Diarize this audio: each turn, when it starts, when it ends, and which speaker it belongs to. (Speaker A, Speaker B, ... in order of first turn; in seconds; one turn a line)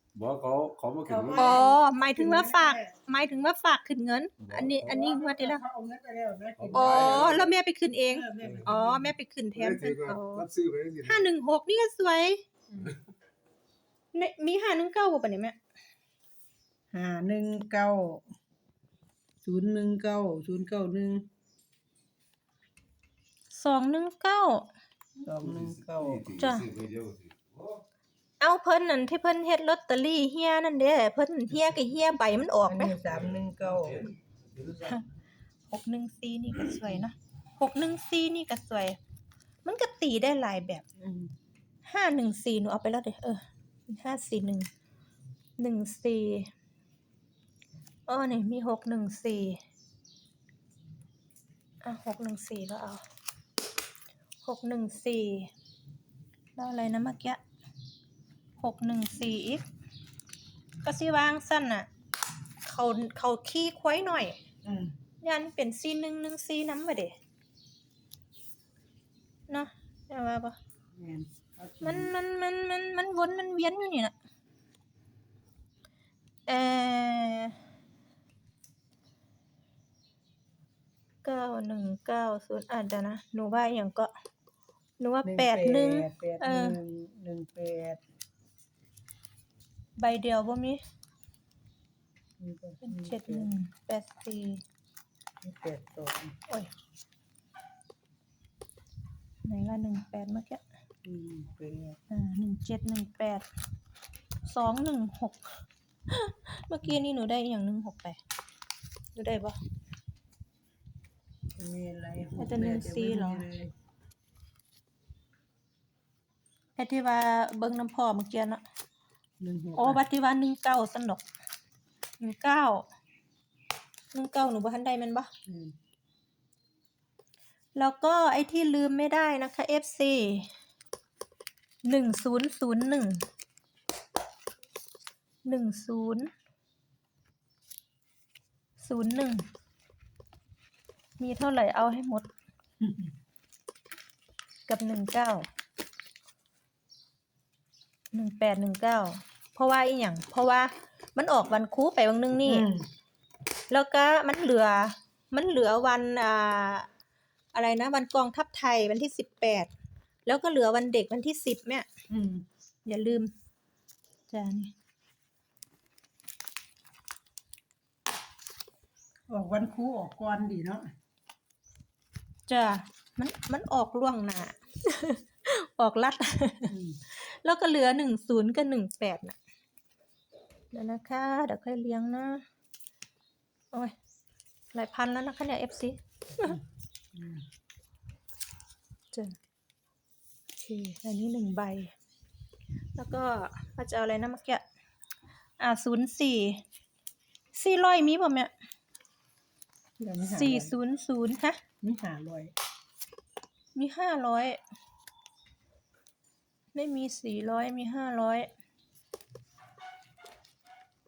Speaker A: 0.1-1.6
Speaker B: 1.1-2.9
Speaker C: 1.3-5.6
Speaker A: 4.4-4.9
Speaker B: 4.8-7.5
Speaker A: 6.6-7.5
Speaker C: 6.7-10.4
Speaker B: 8.1-9.1
Speaker A: 8.4-8.7
Speaker A: 9.5-11.2
Speaker C: 11.0-12.4
Speaker B: 12.7-12.9
Speaker C: 14.1-15.6
Speaker B: 16.9-18.2
Speaker B: 19.4-21.2
Speaker C: 23.5-24.7
Speaker B: 25.2-26.2
Speaker A: 25.4-27.8
Speaker C: 26.4-26.7
Speaker C: 28.4-33.0
Speaker B: 32.7-34.1
Speaker A: 33.1-35.0
Speaker C: 35.7-39.0
Speaker C: 39.6-40.8
Speaker B: 41.0-41.3
Speaker C: 41.9-44.7
Speaker C: 45.6-46.5
Speaker C: 48.1-49.6
Speaker C: 51.8-53.0
Speaker C: 54.4-55.5
Speaker C: 56.5-57.4
Speaker C: 58.6-59.6
Speaker C: 60.8-61.9
Speaker C: 62.6-64.4
Speaker B: 64.6-64.9
Speaker C: 65.2-67.1
Speaker C: 69.5-70.6
Speaker B: 71.0-72.1
Speaker C: 71.8-74.1
Speaker C: 76.5-77.5
Speaker C: 81.2-84.1
Speaker C: 85.0-86.8
Speaker B: 85.2-88.0
Speaker C: 90.0-90.8
Speaker B: 92.4-93.5
Speaker C: 92.8-94.6
Speaker B: 95.4-96.3
Speaker C: 99.4-100.6
Speaker B: 101.0-102.0
Speaker C: 102.1-103.4
Speaker C: 104.5-105.5
Speaker C: 106.1-108.2
Speaker C: 109.1-109.6
Speaker B: 111.6-113.7
Speaker C: 112.4-113.5
Speaker C: 116.8-118.6
Speaker B: 119.4-120.0
Speaker C: 119.8-121.2
Speaker C: 122.2-122.8
Speaker C: 124.1-125.3
Speaker B: 125.5-125.7
Speaker C: 127.8-130.5
Speaker C: 131.8-133.2
Speaker C: 135.4-136.3
Speaker C: 138.8-139.4
Speaker C: 141.2-142.3
Speaker B: 142.8-143.1
Speaker C: 144.7-145.4
Speaker C: 148.1-152.7
Speaker B: 152.4-152.8
Speaker C: 153.7-156.9
Speaker C: 157.5-159.7
Speaker C: 160.2-161.8
Speaker B: 162.1-162.4
Speaker C: 162.8-163.3
Speaker C: 164.3-164.7
Speaker B: 169.3-170.8
Speaker C: 172.5-179.3
Speaker B: 176.7-177.0
Speaker C: 180.7-182.4
Speaker C: 184.7-186.6
Speaker B: 187.1-187.4
Speaker C: 190.6-191.9
Speaker C: 192.9-194.6
Speaker C: 195.6-196.6
Speaker C: 197.5-198.5
Speaker B: 200.0-200.7
Speaker C: 200.3-201.6
Speaker B: 201.8-202.5
Speaker C: 203.7-204.6
Speaker C: 206.7-208.5